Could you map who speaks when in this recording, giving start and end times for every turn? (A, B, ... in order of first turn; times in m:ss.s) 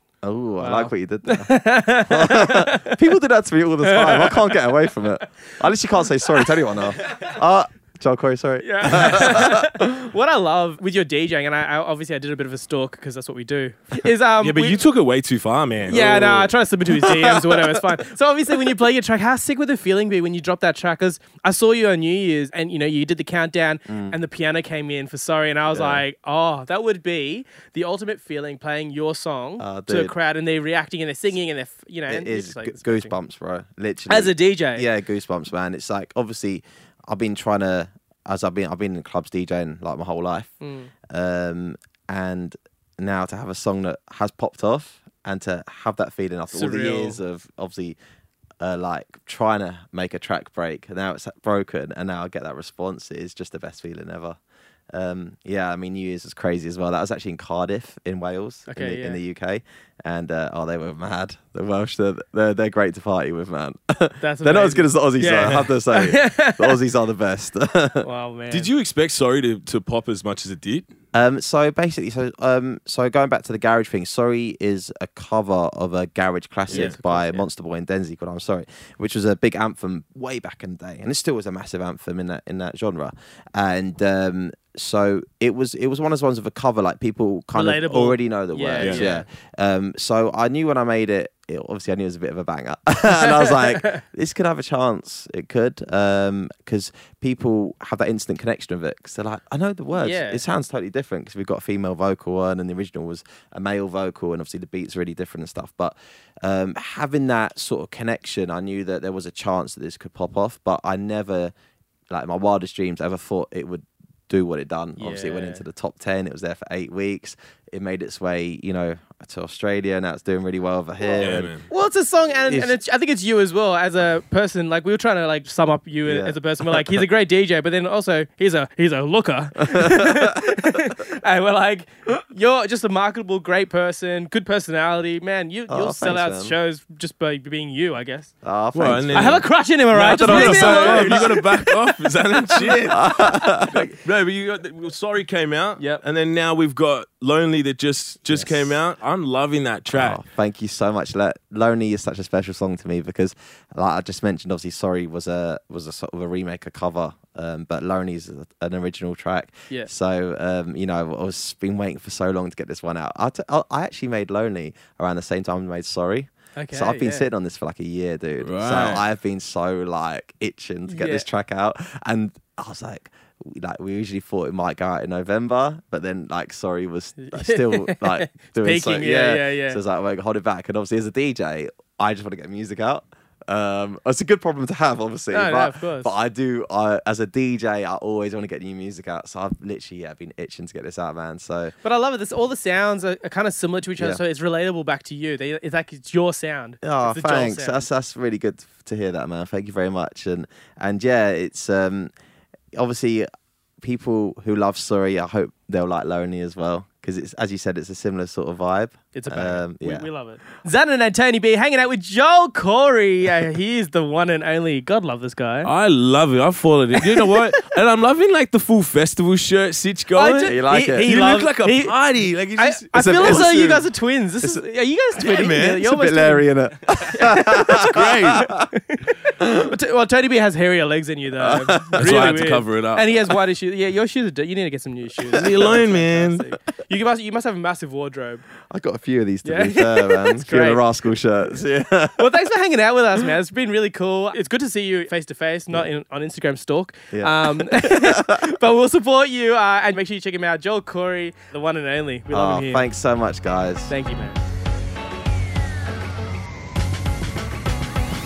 0:00.2-0:09.7 A
0:00.6-0:02.8 B
0:03.9-0:04.3 B
0:08.6-0:14.8 B
0:14.4-0:16.6 C
0:15.9-0:33.1 B
0:23.9-0:24.2 A
0:25.7-0:26.0 A
0:29.6-0:30.2 A
0:32.1-0:40.5 A
0:34.1-0:34.9 B
0:40.6-0:40.9 B
0:41.1-0:48.0 A
0:46.5-0:47.2 B
0:48.6-0:54.4 A
0:54.9-1:08.1 A
0:58.7-0:59.2 B
1:04.2-1:06.8 B
1:08.0-1:08.7 B
1:08.5-1:10.9 C
1:11.1-1:51.5 A
1:16.7-1:17.0 C
1:16.7-1:17.5 B
1:27.5-1:29.2 B
1:28.8-1:29.1 C
1:33.2-1:34.0 B
1:40.0-1:40.4 B
1:52.1-2:01.5 A
1:55.0-1:55.6 B
2:01.0-2:18.3 B
2:01.2-2:01.7 C
2:02.5-2:02.8 A
2:06.0-2:06.8 A
2:09.9-2:10.2 A
2:15.7-2:16.6 A
2:18.4-2:21.4 A
2:18.7-2:30.2 C
2:19.1-2:21.8 B
2:22.6-2:22.9 B
2:22.9-2:23.9 A
2:25.8-2:26.0 B
2:28.3-2:28.8 A
2:29.9-3:11.8 A
2:46.6-2:47.3 B
2:48.4-2:49.0 C
2:50.9-2:51.3 B
2:57.2-2:59.8 B
3:05.3-3:06.1 B
3:11.8-3:17.9 B
3:16.8-3:22.1 A
3:22.8-3:23.3 A
3:23.8-3:30.1 A
3:29.1-3:35.7 B
3:35.6-3:43.5 C
3:40.2-3:42.0 B
3:40.5-3:41.1 A
3:42.6-3:58.4 B
3:42.9-3:43.9 A
3:45.2-3:45.9 C
3:45.8-3:48.7 A
3:47.9-3:48.5 C
3:51.5-3:52.2 A
3:52.0-3:53.1 C
3:55.3-3:56.4 C
3:55.4-3:55.7 A
3:58.7-4:02.3 A
3:59.4-4:00.9 B
4:02.2-4:12.9 B
4:07.1-4:08.5 A
4:12.3-4:13.9 A
4:13.9-4:14.4 B